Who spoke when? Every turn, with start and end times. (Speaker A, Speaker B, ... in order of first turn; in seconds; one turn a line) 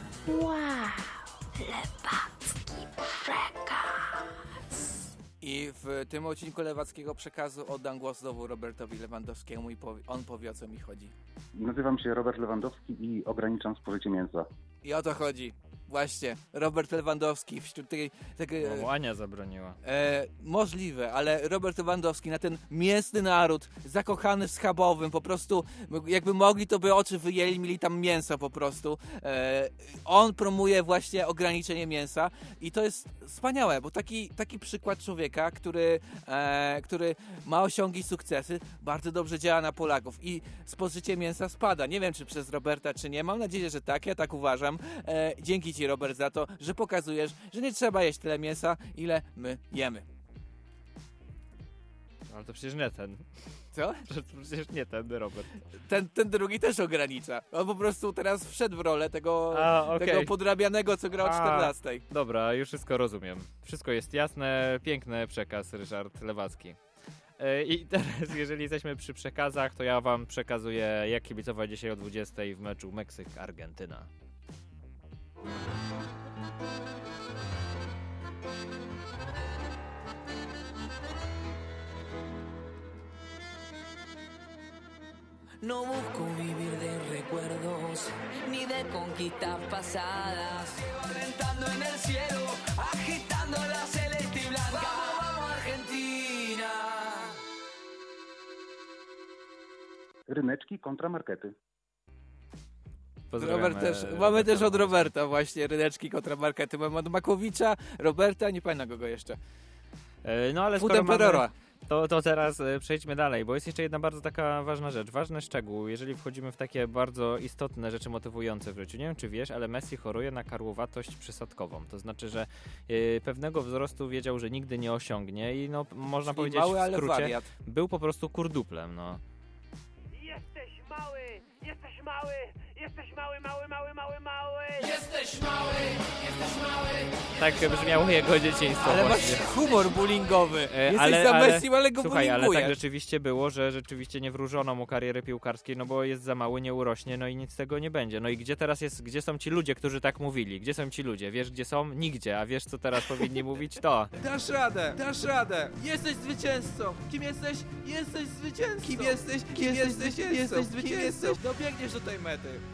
Speaker A: 0.2-4.8
Speaker B: 5.4-11.1
Speaker C: 11.6-14.5
Speaker B: 14.8-18.9
Speaker D: 18.6-19.8
Speaker B: 19.8-50.0
Speaker D: 52.3-53.2
Speaker B: 53.7-54.0
Speaker D: 54.1-55.5
Speaker B: 55.7-62.0
Speaker D: 59.5-60.3
Speaker D: 61.2-66.8
Speaker D: 67.4-74.1
Speaker E: 85.6-97.2
Speaker C: 100.3-101.5
Speaker D: 103.3-105.1
Speaker B: 103.4-109.4
Speaker D: 110.2-129.2
Speaker B: 110.8-111.5
Speaker B: 126.3-127.5
Speaker F: 130.1-135.0
Speaker E: 135.3-136.5
Speaker D: 137.4-139.6
Speaker B: 138.8-142.8
Speaker D: 140.7-154.1
Speaker B: 158.8-161.4
Speaker D: 160.9-161.3